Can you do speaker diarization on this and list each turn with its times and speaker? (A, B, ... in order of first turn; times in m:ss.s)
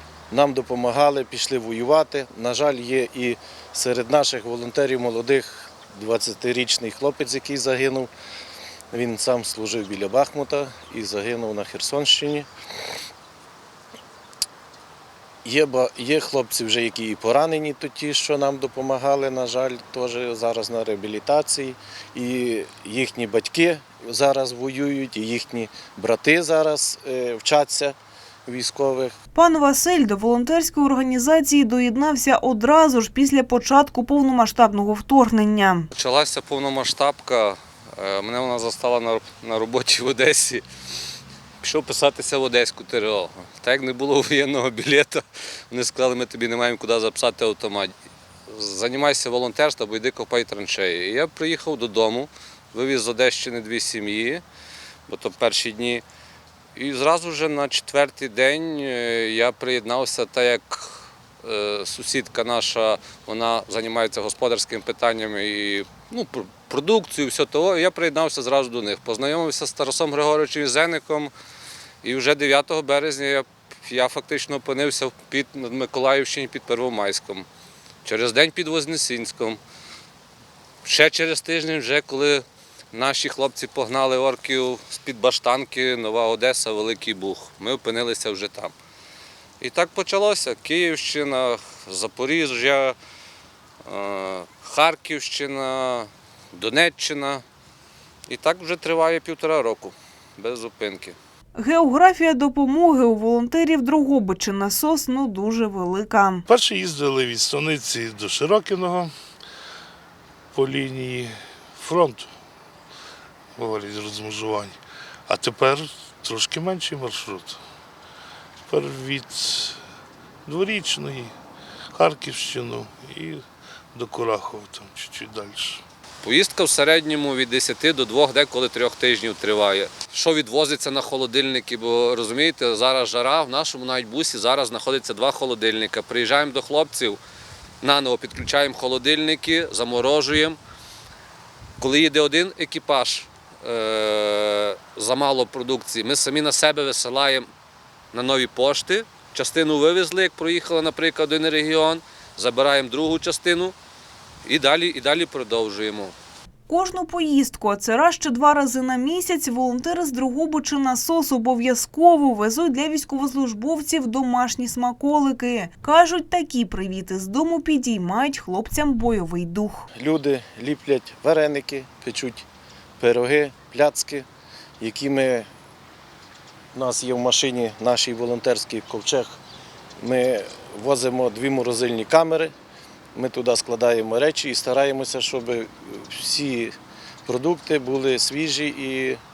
0:00.3-0:08.1 A
0:08.9-0:12.5 A
0:15.4-0:28.0 A
0:28.5-0:29.2 A
0:29.3-0:35.9 B
0:35.9-0:40.6 C
0:41.6-0:47.9 C
0:48.5-0:54.4 C
0:55.1-0:56.0 C
0:56.8-1:11.3 C
1:12.0-1:17.4 C
1:18.0-1:19.6 C
1:20.8-1:28.7 C
1:29.6-1:33.0 C
1:33.8-1:37.4 C
1:38.3-1:41.2 C
1:41.6-1:46.4 B
1:46.5-1:49.1 D
1:50.5-1:52.3 D
1:53.6-1:54.8 D
1:55.3-1:57.6 D
1:58.7-1:59.8 D
2:00.4-2:01.3 D
2:01.9-2:05.8 D
2:06.2-2:17.2 C
2:17.8-2:20.6 C
2:21.8-2:27.5 C
2:28.1-2:33.7 C
2:34.4-2:36.1 C
2:36.7-2:49.8 B
2:50.0-2:52.4 A
2:53.0-2:54.2 A
2:54.8-2:55.5 A
2:56.7-2:59.4 A
3:00.0-3:02.5 A
3:03.1-3:06.7 A
3:07.2-3:09.2 A